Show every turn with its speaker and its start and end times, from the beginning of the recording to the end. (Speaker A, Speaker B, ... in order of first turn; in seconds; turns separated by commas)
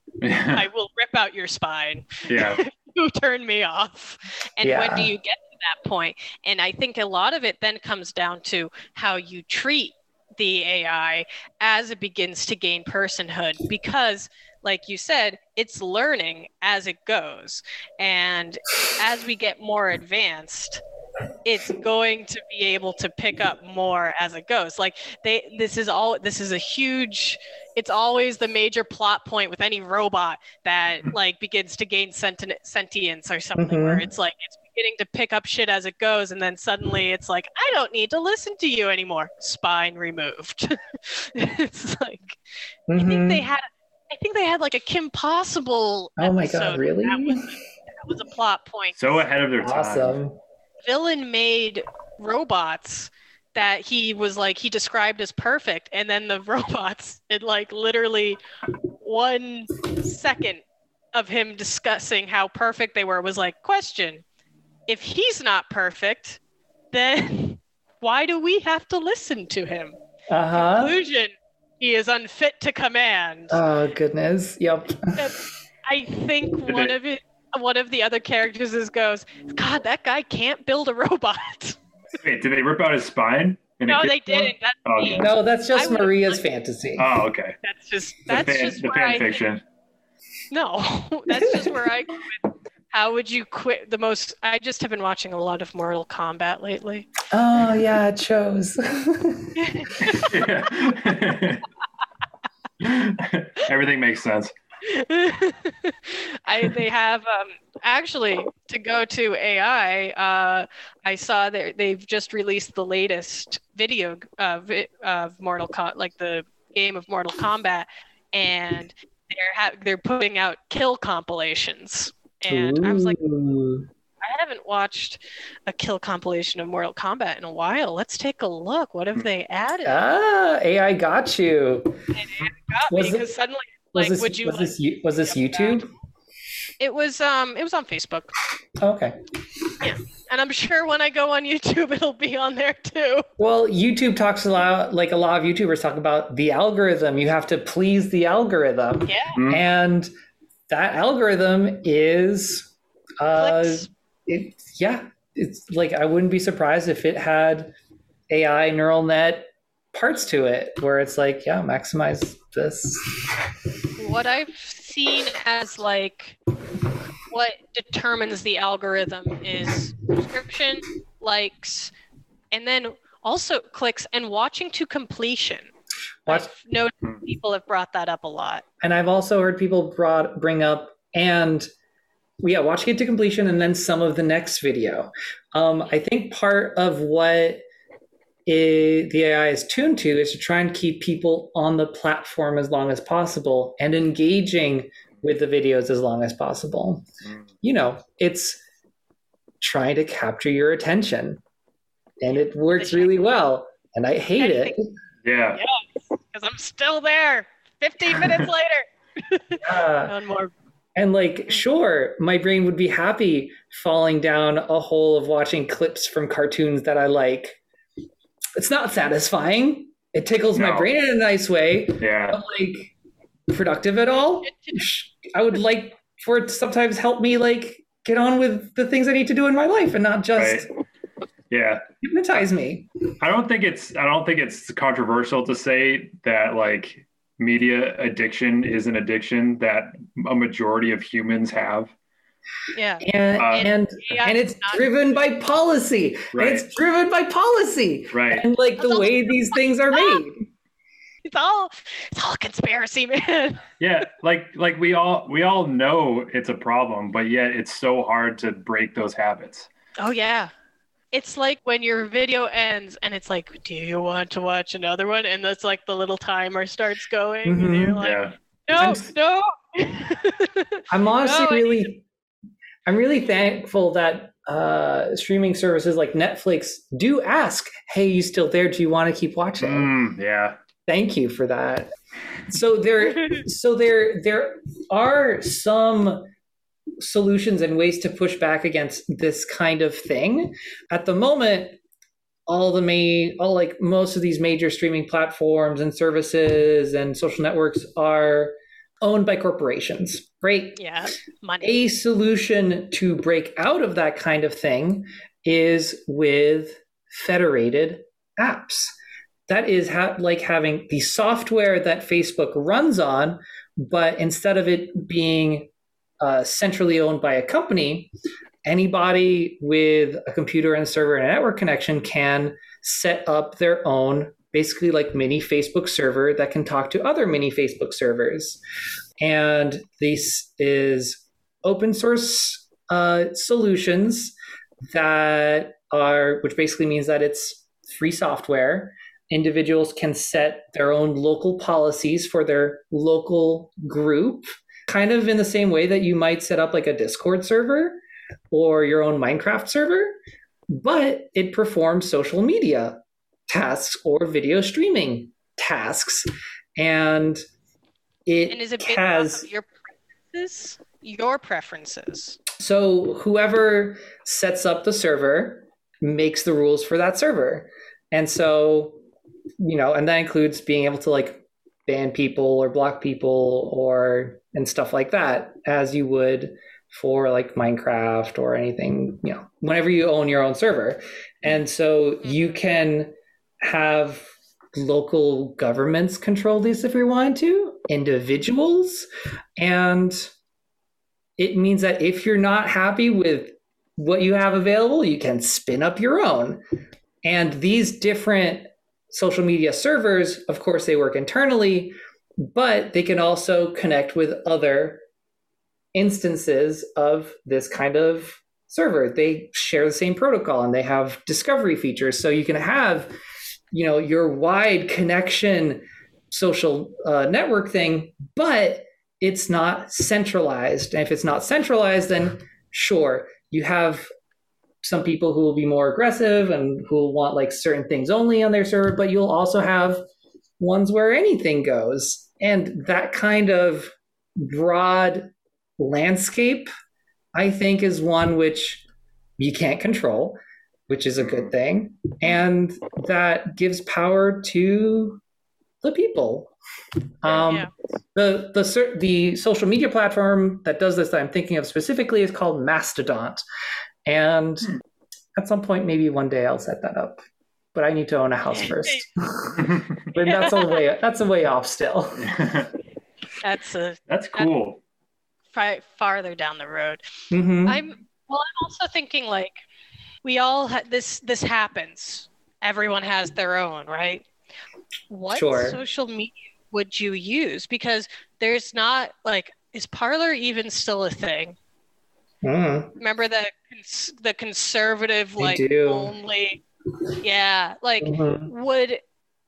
Speaker A: 0.2-0.7, Speaker B: 0.5-20.8, Speaker A: 2.3-2.6, Speaker C: 4.6-5.1, Speaker B: 21.4-42.4, Speaker C: 33.6-34.0, Speaker C: 42.9-43.4, Speaker B: 43.0-49.0, Speaker C: 46.2-47.5, Speaker A: 49.0-50.2, Speaker C: 49.6-50.4, Speaker B: 50.8-58.4, Speaker B: 59.0-60.6, Speaker B: 61.1-64.2, Speaker B: 64.9-66.4, Speaker B: 66.9-70.0, Speaker C: 70.3-71.0, Speaker B: 70.5-73.6, Speaker C: 73.5-75.2, Speaker B: 75.2-81.8, Speaker A: 76.7-77.0, Speaker A: 82.2-85.3, Speaker B: 83.9-86.4, Speaker C: 85.1-87.2, Speaker A: 87.0-87.6, Speaker B: 87.6-89.4, Speaker A: 88.3-89.6, Speaker B: 90.5-97.1, Speaker C: 91.4-91.9, Speaker C: 97.3-100.3, Speaker B: 99.6-100.3, Speaker A: 100.1-101.7, Speaker A: 102.8-104.5, Speaker B: 104.8-123.2, Speaker C: 122.5-123.9, Speaker B: 124.2-130.0, Speaker C: 129.8-132.0, Speaker B: 132.2-135.9, Speaker C: 132.9-133.3, Speaker C: 133.9-135.9, Speaker B: 136.8-138.3, Speaker C: 138.8-139.7, Speaker B: 139.8-143.2, Speaker C: 143.4-150.1, Speaker B: 149.1-149.4, Speaker A: 149.4-149.6, Speaker C: 150.7-157.7, Speaker B: 153.4-153.9, Speaker C: 158.3-163.5, Speaker B: 164.0-166.4, Speaker B: 167.3-171.9, Speaker B: 172.5-175.7, Speaker B: 176.3-178.6, Speaker C: 178.8-181.7, Speaker C: 182.4-187.6, Speaker C: 188.5-197.1, Speaker C: 197.6-198.6, Speaker C: 199.6-201.4, Speaker C: 202.2-204.9, Speaker B: 202.3-203.2, Speaker B: 204.4-204.7, Speaker A: 205.2-205.6, Speaker B: 205.6-210.5, Speaker C: 209.6-210.1, Speaker C: 210.9-217.6, Speaker C: 218.6-222.9, Speaker A: 220.6-220.9, Speaker A: 222.0-222.4, Speaker C: 223.5-230.7, Speaker B: 224.4-224.9, Speaker A: 230.4-230.7, Speaker A: 231.5-231.8, Speaker C: 232.0-232.9, Speaker A: 233.2-241.9, Speaker B: 242.7-244.8, Speaker C: 243.0-250.5, Speaker A: 243.4-243.7, Speaker A: 246.3-246.7, Speaker A: 248.1-248.4, Speaker B: 248.8-250.2, Speaker B: 251.2-253.7, Speaker A: 253.8-259.7, Speaker B: 260.0-260.5, Speaker B: 261.1-271.9, Speaker C: 267.4-268.0, Speaker A: 268.0-268.3, Speaker C: 268.8-269.1, Speaker C: 270.9-272.1, Speaker C: 272.9-279.9, Speaker A: 279.6-280.6, Speaker C: 280.9-281.9, Speaker C: 282.5-286.3, Speaker B: 283.1-283.4, Speaker C: 287.0-291.8, Speaker C: 292.5-300.8, Speaker B: 300.8-301.8, Speaker C: 301.6-308.9, Speaker C: 309.5-318.1, Speaker C: 318.6-328.6, Speaker C: 329.2-334.3, Speaker C: 334.9-348.0, Speaker C: 348.5-350.2, Speaker C: 350.7-357.4, Speaker C: 358.3-359.5, Speaker B: 358.5-362.4, Speaker C: 362.6-369.0, Speaker C: 369.6-383.1, Speaker B: 382.2-382.7, Speaker C: 383.6-390.3, Speaker C: 391.4-396.6, Speaker C: 397.2-401.9, Speaker C: 402.5-405.0, Speaker C: 405.9-413.1, Speaker C: 413.7-424.1, Speaker C: 424.8-430.0, Speaker C: 430.6-436.7, Speaker C: 437.4-438.8, Speaker C: 439.4-440.4, Speaker C: 440.9-445.2, Speaker A: 441.2-441.5, Speaker C: 445.8-446.5, Speaker C: 447.2-453.4, Speaker B: 447.5-447.7, Speaker C: 454.1-454.7, Speaker C: 455.4-457.2, Speaker C: 457.8-462.3, Speaker B: 458.5-459.1, Speaker B: 460.2-460.8, Speaker A: 462.2-462.7, Speaker B: 463.4-464.5, Speaker A: 464.1-464.8, Speaker B: 465.5-467.0, Speaker C: 467.3-467.8, Speaker B: 467.7-469.6, Speaker B: 470.2-474.3, Speaker B: 475.1-481.6, Speaker C: 475.3-475.8, Speaker C: 482.4-482.9, Speaker B: 483.0-486.6, Speaker C: 485.4-486.1, Speaker B: 487.2-489.0, Speaker C: 488.0-488.5